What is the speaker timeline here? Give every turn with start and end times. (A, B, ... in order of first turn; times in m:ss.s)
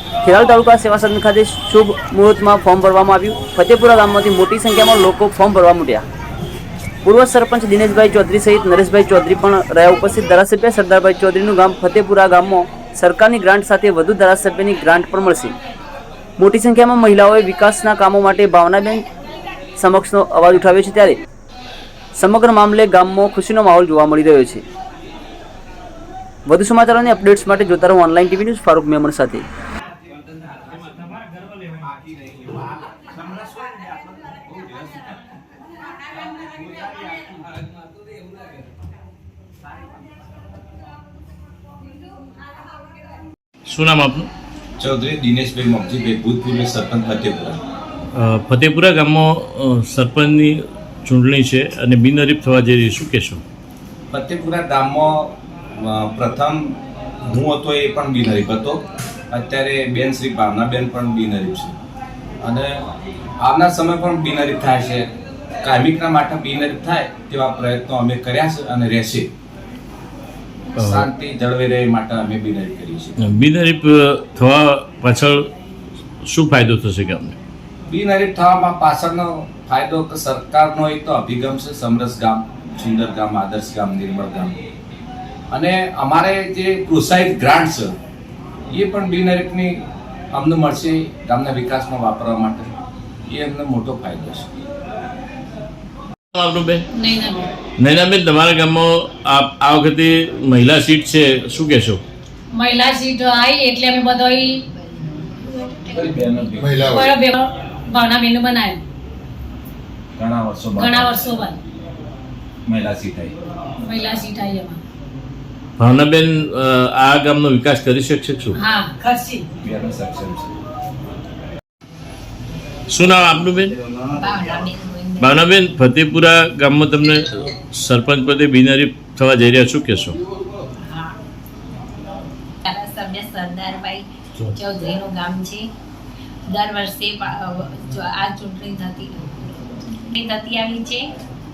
0:00.2-0:06.0 A
0:07.0-0:15.5 A
0:16.4-0:19.0 A
0:19.8-0:21.2 A
0:22.2-0:24.6 A
0:26.5-0:29.4 A
0:43.7-0:44.3 B
0:44.8-0:47.6 C
0:48.1-0:53.4 B
0:54.1-1:01.7 C
1:02.4-1:02.8 C
1:03.4-1:05.1 C
1:05.6-1:09.3 C
1:10.8-1:13.2 C
1:10.8-1:11.0 B
1:13.2-1:15.5 B
1:16.2-1:17.4 B
1:17.9-1:24.5 C
1:25.5-1:27.9 C
1:28.7-1:29.8 C
1:30.3-1:32.7 C
1:33.3-1:34.5 C
1:36.3-1:36.8 B
1:36.9-1:37.5 D
1:37.8-1:42.0 B
1:42.5-1:44.6 D
1:44.8-1:46.7 E
1:45.9-1:47.2 C
1:46.8-1:48.8 D
1:50.2-1:51.2 C
1:50.8-1:51.6 D
1:52.6-1:53.3 C
1:53.8-1:54.8 D
1:55.8-1:58.6 B
1:58.5-1:59.4 D
1:59.6-2:00.5 C
2:02.9-2:03.8 B
2:04.0-2:05.6 E
2:05.2-2:10.2 B
2:10.8-2:11.2 E
2:12.6-2:15.7 E
2:16.4-2:21.1 E